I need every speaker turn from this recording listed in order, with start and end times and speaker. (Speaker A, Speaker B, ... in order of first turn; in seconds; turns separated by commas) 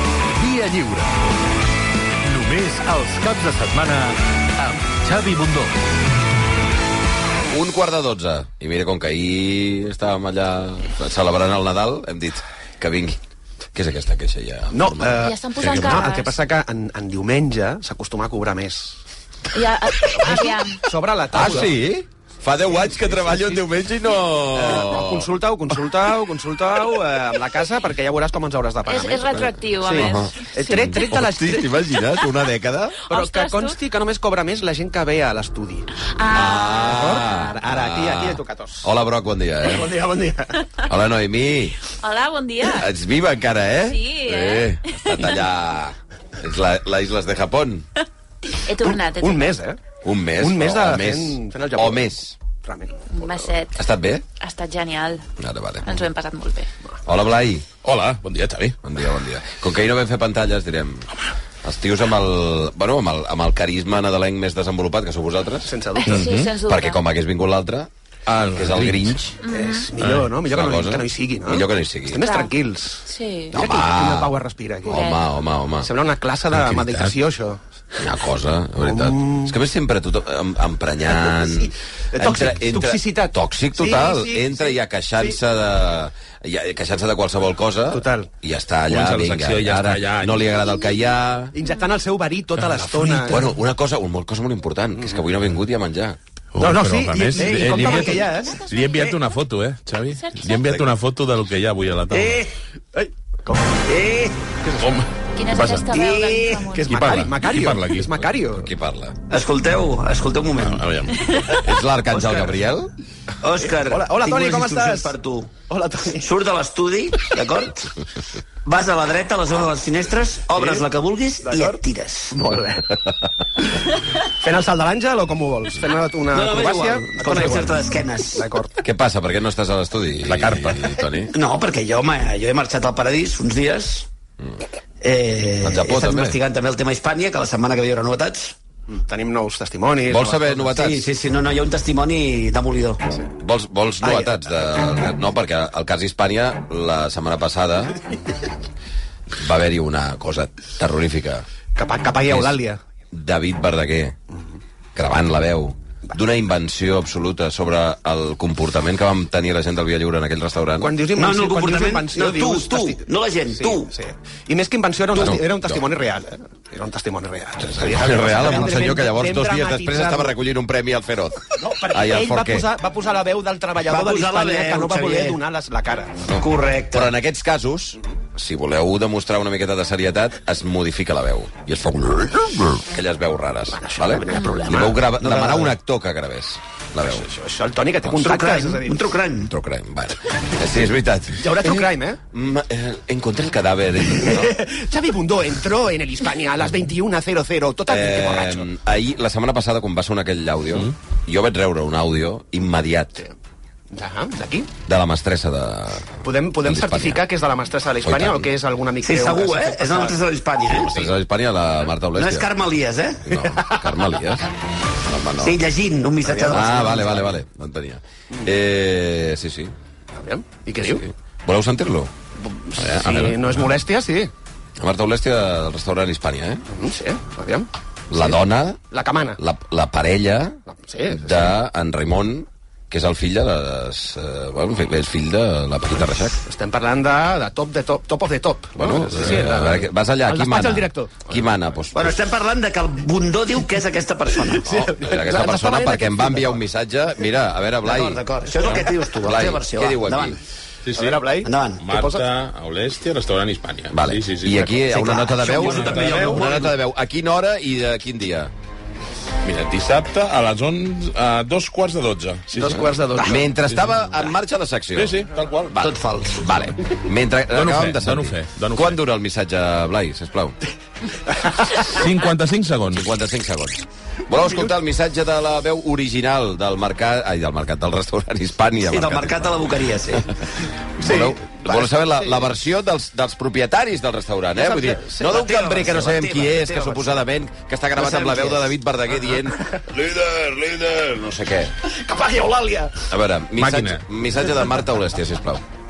Speaker A: 0.3-1.3, Speaker A: 2.2-5.8, Speaker B: 7.5-13.2, Speaker B: 13.7-15.3, Speaker C: 14.7-19.0, Speaker D: 15.2-16.4, Speaker E: 15.6-16.0, Speaker D: 19.5-20.8, Speaker C: 20.2-21.8, Speaker B: 21.3-25.3, Speaker C: 24.5-31.7, Speaker D: 28.9-31.0, Speaker B: 29.3-33.0, Speaker D: 33.1-33.8, Speaker C: 33.1-35.9, Speaker D: 36.1-37.4, Speaker B: 36.3-39.9, Speaker C: 36.9-38.9, Speaker C: 39.6-40.6, Speaker B: 40.9-41.8, Speaker D: 41.9-42.9, Speaker B: 42.7-47.8, Speaker D: 43.9-45.4, Speaker D: 48.5-49.5, Speaker C: 48.8-49.8, Speaker B: 50.0-52.3, Speaker C: 50.4-53.0, Speaker D: 53.1-53.8, Speaker B: 53.7-54.2, Speaker D: 54.4-55.2, Speaker B: 55.4-56.0, Speaker D: 55.8-56.7, Speaker B: 57.0-57.7, Speaker E: 57.8-58.8, Speaker B: 58.8-61.1, Speaker B: 61.6-67.9, Speaker C: 65.7-66.2, Speaker D: 66.0-67.0, Speaker E: 66.1-66.5, Speaker E: 68.3-69.2, Speaker B: 68.5-69.3, Speaker D: 69.4-69.9, Speaker C: 69.5-75.1, Speaker E: 70.0-70.3, Speaker B: 70.4-72.3, Speaker D: 72.2-72.5, Speaker D: 73.0-73.5, Speaker B: 73.5-74.3, Speaker B: 74.8-75.9, Speaker D: 74.9-75.2, Speaker C: 75.8-77.6, Speaker E: 76.5-77.1, Speaker B: 78.0-91.5, Speaker C: 78.8-79.5, Speaker C: 81.0-85.4, Speaker C: 87.9-88.3, Speaker E: 88.9-90.6, Speaker C: 91.5-93.5, Speaker D: 91.6-91.9, Speaker E: 92.6-93.3, Speaker B: 93.2-96.2, Speaker C: 95.0-95.2, Speaker E: 96.5-102.3, Speaker C: 96.6-98.6, Speaker F: 97.4-97.9, Speaker D: 98.2-99.2, Speaker D: 100.1-100.6, Speaker F: 102.1-102.5, Speaker C: 102.9-103.8, Speaker F: 103.8-104.4, Speaker C: 104.6-104.9, Speaker E: 104.8-105.9, Speaker D: 105.3-107.0, Speaker F: 105.9-106.7, Speaker C: 106.7-108.7, Speaker E: 106.9-108.2, Speaker B: 108.5-109.2, Speaker F: 109.3-110.8, Speaker E: 110.6-111.3, Speaker D: 111.3-111.6, Speaker B: 111.6-112.9, Speaker F: 112.1-112.5, Speaker F: 113.4-115.5, Speaker C: 113.6-115.1, Speaker C: 115.7-116.3, Speaker F: 116.2-117.9, Speaker F: 118.6-122.5, Speaker C: 120.5-120.8, Speaker C: 121.4-121.8, Speaker C: 122.4-122.8, Speaker C: 124.3-127.7, Speaker F: 126.3-128.5, Speaker C: 128.3-128.7, Speaker B: 128.8-131.3, Speaker C: 130.2-131.0, Speaker F: 131.3-134.1, Speaker F: 135.0-138.5, Speaker B: 135.6-136.4, Speaker C: 138.9-140.7, Speaker B: 140.1-141.0, Speaker F: 140.7-143.0, Speaker B: 143.4-148.0, Speaker C: 144.0-144.3, Speaker B: 149.4-151.4, Speaker C: 151.8-152.8, Speaker B: 152.3-152.6, Speaker B: 153.1-154.2, Speaker B: 154.9-160.9, Speaker C: 160.8-170.3, Speaker F: 161.1-163.9, Speaker B: 165.1-165.8, Speaker B: 167.6-172.7, Speaker C: 171.6-176.3, Speaker F: 173.8-175.4, Speaker F: 176.3-177.1, Speaker B: 176.9-187.3, Speaker C: 183.7-185.5, Speaker F: 185.2-185.7, Speaker C: 187.0-189.0, Speaker F: 188.2-189.5, Speaker B: 189.5-191.7, Speaker C: 191.4-192.2, Speaker B: 192.3-194.5, Speaker C: 194.2-198.7, Speaker B: 197.9-203.2, Speaker C: 203.9-204.7, Speaker B: 204.9-207.2, Speaker C: 206.2-210.1, Speaker B: 208.0-208.5, Speaker F: 209.0-211.0, Speaker B: 210.7-212.4, Speaker F: 212.1-213.4, Speaker B: 213.3-214.5, Speaker B: 215.0-215.6, Speaker F: 215.4-217.3, Speaker C: 216.3-216.7, Speaker B: 216.5-219.7, Speaker C: 220.2-221.0, Speaker B: 220.8-222.1, Speaker C: 222.4-224.3, Speaker B: 222.8-223.5, Speaker B: 224.8-226.6, Speaker C: 226.7-228.4, Speaker B: 228.1-228.8, Speaker C: 228.9-229.4, Speaker B: 229.4-230.6, Speaker C: 230.7-231.6, Speaker B: 231.1-236.4, Speaker C: 236.4-241.4, Speaker B: 238.8-242.2, Speaker F: 241.9-244.7, Speaker C: 244.4-246.6, Speaker B: 244.7-250.4, Speaker F: 247.8-250.4, Speaker E: 250.9-251.2, Speaker C: 250.9-252.2, Speaker F: 251.4-251.8, Speaker E: 251.8-254.8, Speaker B: 253.9-258.5, Speaker F: 254.9-256.6, Speaker E: 255.6-256.3, Speaker C: 255.8-256.5, Speaker E: 259.4-262.9, Speaker C: 262.5-263.4, Speaker B: 263.2-270.6, Speaker E: 264.9-265.8, Speaker F: 265.8-266.5, Speaker E: 267.5-269.0, Speaker E: 271.8-273.1, Speaker B: 272.9-279.7, Speaker C: 274.4-274.7, Speaker F: 278.8-280.3, Speaker B: 281.0-291.7, Speaker C: 281.0-282.5, Speaker C: 284.6-285.4, Speaker F: 285.2-287.2, Speaker F: 287.9-288.7, Speaker C: 292.0-292.9, Speaker B: 293.1-295.6, Speaker E: 293.6-294.0